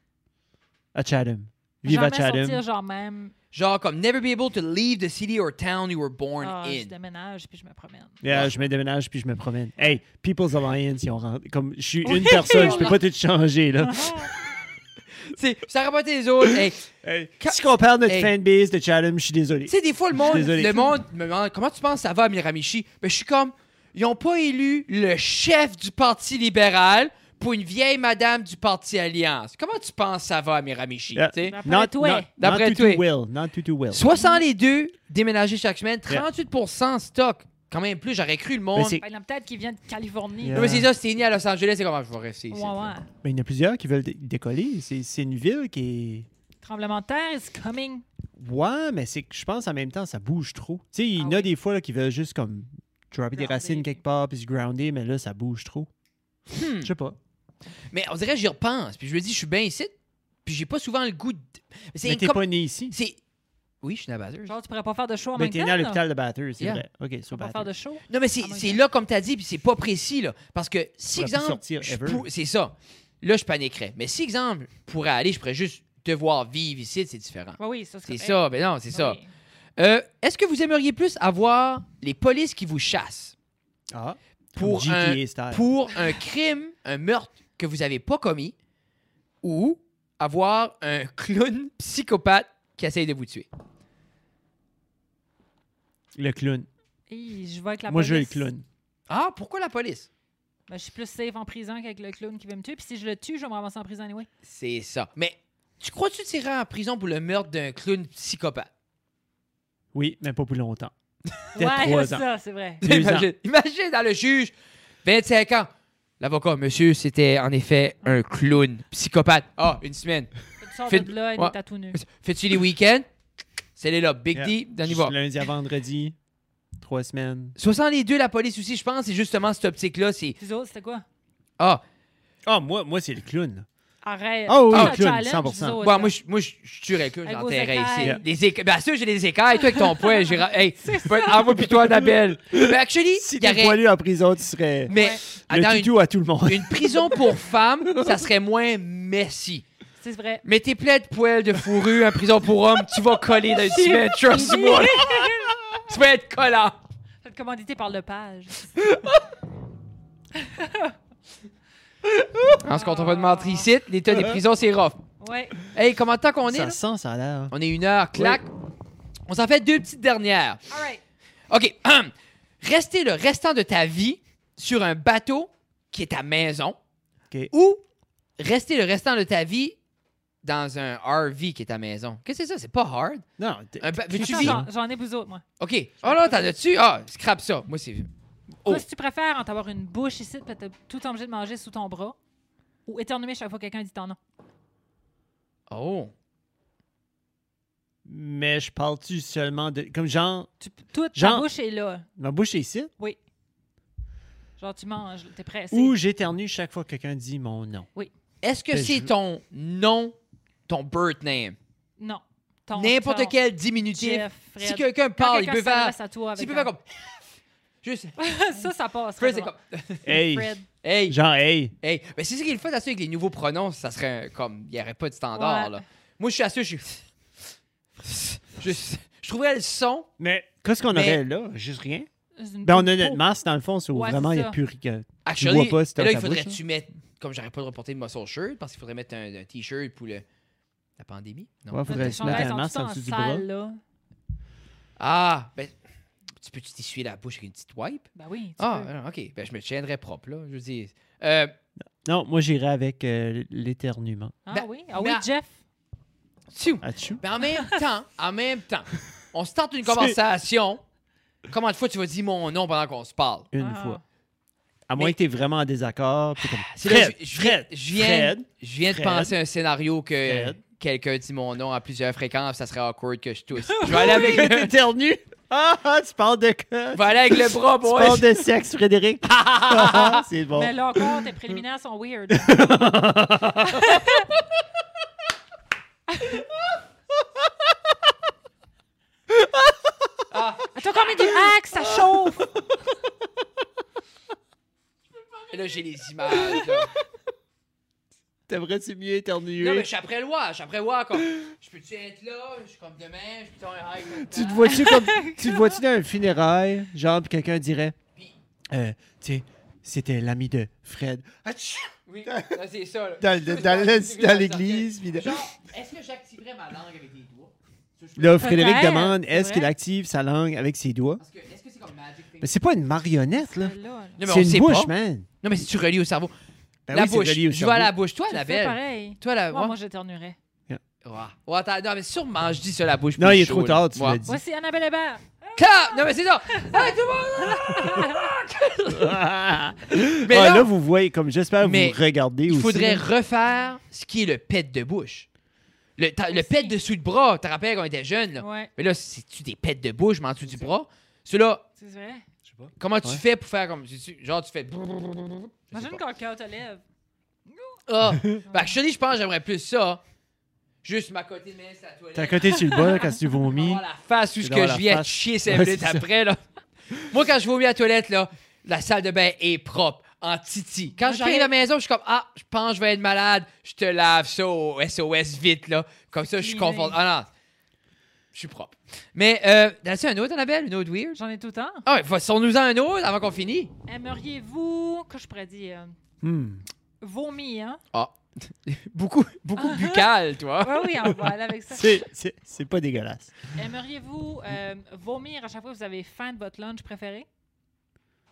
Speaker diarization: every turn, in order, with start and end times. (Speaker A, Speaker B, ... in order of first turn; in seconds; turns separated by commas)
Speaker A: 0.9-2.6, Speaker B: 1.9-3.3, Speaker C: 3.5-6.9, Speaker B: 6.4-8.2, Speaker A: 8.2-14.3, Speaker C: 8.3-8.5, Speaker B: 12.1-13.0, Speaker C: 12.2-13.0, Speaker B: 13.9-14.3, Speaker C: 15.3-16.9, Speaker A: 17.0-20.9, Speaker C: 17.4-18.3, Speaker C: 19.7-31.6, Speaker B: 20.2-20.8, Speaker A: 31.1-34.1, Speaker B: 31.5-32.3, Speaker C: 32.4-33.0, Speaker C: 33.9-39.0, Speaker B: 34.1-34.4, Speaker A: 38.8-39.0, Speaker B: 39.0-40.6, Speaker A: 40.4-40.9, Speaker C: 40.5-42.9, Speaker B: 42.5-43.1, Speaker A: 43.2-46.3, Speaker B: 46.6-48.0, Speaker A: 48.4-55.9, Speaker B: 51.2-51.5, Speaker B: 53.3-54.0, Speaker C: 56.5-56.9, Speaker A: 56.8-57.2, Speaker C: 57.9-59.9, Speaker C: 60.5-63.2, Speaker A: 62.0-63.0, Speaker C: 63.8-64.5, Speaker B: 64.5-66.0, Speaker A: 65.4-67.7, Speaker B: 67.3-68.8, Speaker C: 68.1-79.2, Speaker A: 71.2-72.3, Speaker B: 77.6-78.4, Speaker B: 78.9-79.3, Speaker C: 79.8-83.3, Speaker A: 83.9-85.7, Speaker C: 84.6-88.5, Speaker C: 89.4-93.5, Speaker A: 96.2-96.7, Speaker B: 97.1-98.5, Speaker A: 97.9-98.7, Speaker C: 99.1-100.1, Speaker B: 100.7-104.3, Speaker C: 104.5-108.7, Speaker A: 109.9-110.9, Speaker B: 111.5-112.8, Speaker A: 111.6-112.2, Speaker A: 112.8-113.3, Speaker C: 112.8-114.5, Speaker C: 115.0-115.7, Speaker C: 116.2-120.3, Speaker B: 120.6-122.0, Speaker C: 120.9-123.1, Speaker C: 123.8-125.1, Speaker A: 124.3-126.2, Speaker A: 126.8-127.6, Speaker C: 127.6-130.4, Speaker B: 130.4-131.0, Speaker A: 132.5-133.7, Speaker B: 134.0-136.2, Speaker A: 134.5-135.8, Speaker C: 134.7-135.0, Speaker C: 135.8-143.8, Speaker B: 137.2-138.2, Speaker B: 139.6-141.8, Speaker A: 141.7-148.3, Speaker B: 144.9-145.2, Speaker C: 144.9-145.9, Speaker C: 146.5-149.7, Speaker B: 150.0-150.4, Speaker C: 150.4-155.2, Speaker B: 153.8-155.6, Speaker C: 155.8-156.8, Speaker B: 157.2-158.7, Speaker B: 160.3-160.9, Speaker A: 162.2-162.5, Speaker C: 162.6-165.0, Speaker B: 162.7-163.7, Speaker A: 164.1-164.4, Speaker B: 165.2-165.6, Speaker C: 165.7-166.8, Speaker A: 166.5-167.5, Speaker C: 167.5-168.5, Speaker A: 168.1-168.4, Speaker C: 169.3-170.6, Speaker B: 170.7-171.0, Speaker C: 171.5-176.8, Speaker C: 177.5-177.8, Speaker C: 178.4-179.8, Speaker C: 180.4-183.2, Speaker A: 183.4-184.7, Speaker C: 183.8-184.6, Speaker B: 184.2-185.4, Speaker C: 185.6-188.1, Speaker B: 186.0-186.5, Speaker B: 188.7-192.2, Speaker B: 192.9-194.2, Speaker C: 195.7-196.1, Speaker A: 198.1-200.5, Speaker B: 200.6-202.1, Speaker A: 201.2-201.5, Speaker A: 202.2-202.9, Speaker B: 204.6-206.0, Speaker A: 205.7-207.9, Speaker C: 208.4-210.2, Speaker A: 208.7-209.1, Speaker C: 210.7-211.6, Speaker B: 212.0-213.3, Speaker C: 212.8-217.3, Speaker B: 213.9-216.7, Speaker C: 217.8-220.1, Speaker B: 218.2-219.5, Speaker A: 220.1-220.5, Speaker B: 220.1-220.7, Speaker C: 220.8-221.2, Speaker A: 221.1-221.7, Speaker C: 221.8-227.0, Speaker B: 225.3-225.8, Speaker C: 228.0-230.1, Speaker A: 230.2-232.1, Speaker C: 230.9-231.2, Speaker B: 232.4-233.2, Speaker A: 232.7-236.6, Speaker B: 233.9-234.6, Speaker C: 235.2-240.2, Speaker C: 241.0-242.5, Speaker A: 241.7-243.4, Speaker B: 241.9-243.8, Speaker C: 245.0-245.8, Speaker C: 246.4-251.5, Speaker B: 248.2-248.9, Speaker A: 252.0-254.4, Speaker B: 254.5-255.6, Speaker C: 254.5-255.2, Speaker C: 256.5-260.8, Speaker A: 256.8-257.2, Speaker A: 259.9-260.2, Speaker C: 261.5-263.5, Speaker A: 263.5-264.0, Speaker B: 263.6-264.0, Speaker A: 264.9-269.3, Speaker C: 266.7-274.7, Speaker A: 270.3-270.6, Speaker B: 273.6-274.3, Speaker A: 273.9-280.8, Speaker C: 276.9-278.3, Speaker C: 279.3-280.2, Speaker B: 280.5-282.7, Speaker A: 282.3-284.0, Speaker B: 283.6-284.3, Speaker B: 286.1-286.4, Speaker A: 289.3-289.9, Speaker C: 290.3-290.7, Speaker B: 290.7-292.5, Speaker A: 291.9-292.3, Speaker C: 295.5-296.9, Speaker A: 298.5-299.9, Speaker C: 299.6-304.9, Speaker A: 304.1-308.0, Speaker B: 304.7-305.8, Speaker A: 308.7-312.6, Speaker C: 312.1-318.7, Speaker A: 313.2-315.4, Speaker A: 318.2-321.2, Speaker B: 318.4-319.7, Speaker C: 321.2-322.5, Speaker A: 322.4-325.3, Speaker B: 323.4-324.2, Speaker C: 324.2-326.3, Speaker A: 326.9-327.9, Speaker C: 326.9-329.8, Speaker B: 328.3-330.4, Speaker C: 331.0-334.2, Speaker A: 333.2-334.4, Speaker B: 334.3-338.3, Speaker C: 335.6-339.2, Speaker A: 338.9-343.1, Speaker C: 340.1-340.7, Speaker C: 341.6-345.3, Speaker C: 346.0-351.7, Speaker B: 346.3-346.8, Speaker B: 348.4-348.7, Speaker B: 351.8-352.2, Speaker A: 352.4-353.2, Speaker C: 352.8-356.0, Speaker B: 355.7-356.8, Speaker B: 357.5-357.8, Speaker C: 357.9-360.0, Speaker A: 358.1-358.4, Speaker B: 358.5-358.8, Speaker C: 360.8-366.4, Speaker A: 362.1-363.8, Speaker B: 362.5-363.2, Speaker A: 364.4-366.1, Speaker C: 367.0-377.3, Speaker B: 371.0-371.5, Speaker B: 376.3-377.0, Speaker C: 378.3-381.2, Speaker B: 381.1-381.8, Speaker C: 381.9-383.7, Speaker B: 383.9-386.0, Speaker A: 386.2-386.6, Speaker B: 387.0-387.8, Speaker C: 387.9-391.1, Speaker B: 389.6-390.1, Speaker B: 390.6-392.0, Speaker A: 391.7-393.3, Speaker B: 393.6-397.3